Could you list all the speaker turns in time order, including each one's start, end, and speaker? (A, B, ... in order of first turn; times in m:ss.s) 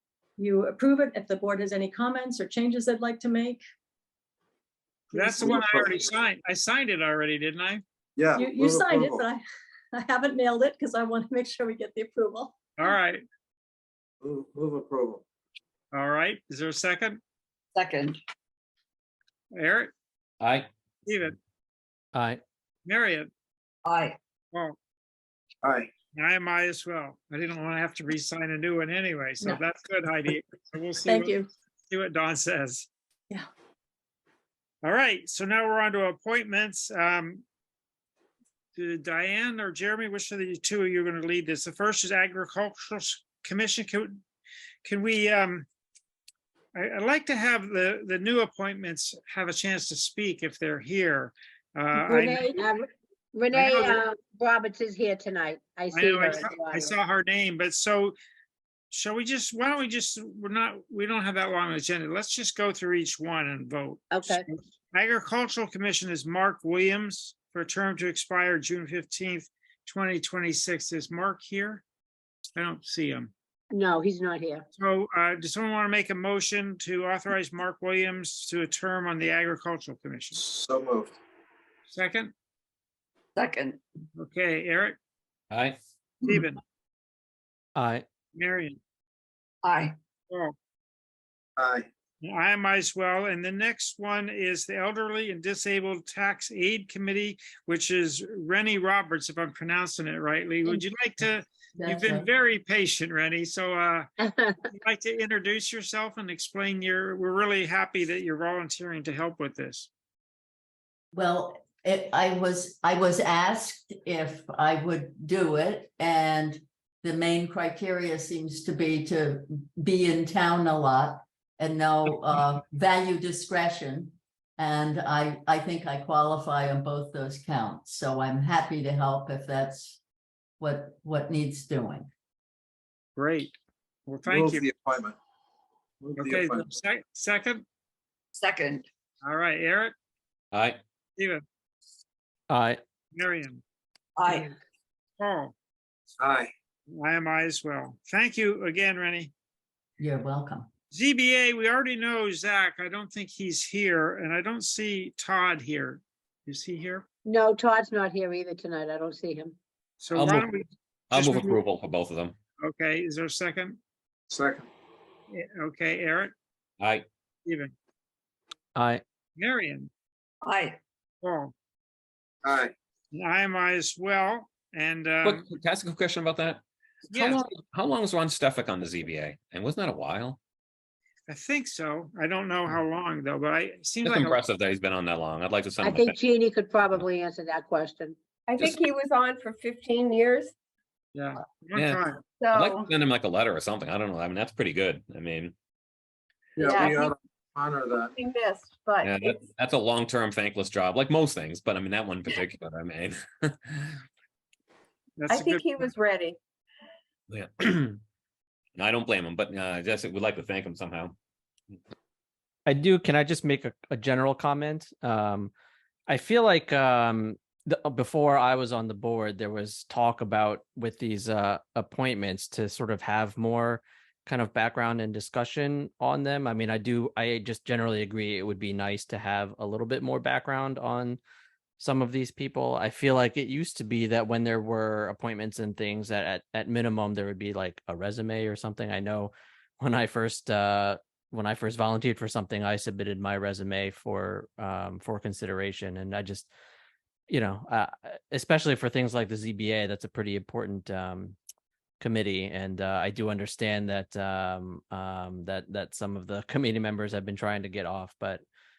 0:00.4-0:03.6 A
0:05.1-0:07.8 B
0:05.1-0:05.6 A
0:05.4-0:06.0 C
0:08.2-0:09.3 C
0:08.3-0:12.5 A
0:12.8-0:13.2 B
0:14.2-0:15.2 C
0:15.9-0:17.2 B
0:17.7-0:18.2 D
0:19.5-0:19.9 B
0:20.4-0:20.7 E
0:21.0-0:21.4 B
0:22.1-0:22.4 F
0:22.8-0:23.3 B
0:23.8-0:24.2 D
0:25.6-0:25.9 C
0:26.1-0:32.9 B
0:31.0-0:31.5 A
0:34.8-0:37.4 B
0:38.8-0:44.2 B
0:44.8-0:45.6 B
0:46.7-0:52.6 B
0:52.0-0:56.9 G
0:53.5-0:54.0 B
0:55.9-0:58.2 B
0:58.9-1:11.8 B
1:04.1-1:04.5 G
1:12.6-1:13.3 B
1:13.7-1:14.6 G
1:14.8-1:20.4 B
1:20.4-1:21.2 C
1:21.9-1:22.3 B
1:23.4-1:23.8 D
1:24.2-1:25.0 B
1:25.5-1:25.8 E
1:26.2-1:26.6 B
1:27.8-1:28.0 F
1:28.3-1:28.8 B
1:29.6-1:30.0 D
1:31.6-1:31.9 C
1:32.2-1:44.1 B
1:41.7-1:42.2 H
1:44.2-1:44.6 G
1:44.7-1:49.9 B
1:51.1-2:10.0 H
2:10.6-2:12.1 H
2:13.2-2:13.5 B
2:14.1-2:14.7 B
2:14.3-2:15.2 C
2:16.0-2:16.7 C
2:16.2-2:17.6 B
2:18.3-2:18.8 D
2:19.2-2:19.9 B
2:20.5-2:20.8 E
2:22.5-2:22.8 F
2:23.1-2:23.6 B
2:24.2-2:24.5 D
2:25.2-2:25.5 B
2:26.2-2:26.5 C
2:26.9-2:29.3 B
2:30.0-2:30.7 H
2:30.9-2:37.0 B
2:37.2-2:39.6 G
2:40.0-2:41.6 B
2:40.1-2:40.5 E
2:41.1-2:42.4 E
2:42.6-2:43.8 B
2:44.3-2:44.7 C
2:45.3-2:46.3 B
2:46.8-2:47.0 E
2:47.4-2:47.7 B
2:48.8-2:49.0 F
2:49.4-2:49.9 B
2:50.4-2:50.8 D
2:51.2-2:51.5 B
2:52.4-2:52.7 C
2:53.1-2:55.4 B
2:55.2-2:56.6 E
2:57.1-2:57.4 B
2:57.1-3:00.4 E
3:01.3-3:04.4 B
3:04.0-3:06.2 E
3:05.8-3:08.2 G
3:08.5-3:10.5 I
3:08.6-3:08.8 E
3:11.1-3:12.2 B
3:11.7-3:15.5 E
3:12.4-3:12.9 I
3:16.6-3:18.1 C
3:16.6-3:17.1 I
3:18.2-3:19.4 I
3:19.0-3:24.0 E
3:25.2-3:25.9 B
3:25.3-3:26.4 I
3:27.3-3:28.0 E
3:28.8-3:31.1 E
3:32.6-3:35.5 F
3:36.1-3:51.2 F
3:51.8-4:06.5 F
4:07.3-4:11.4 F
4:12.0-4:18.4 F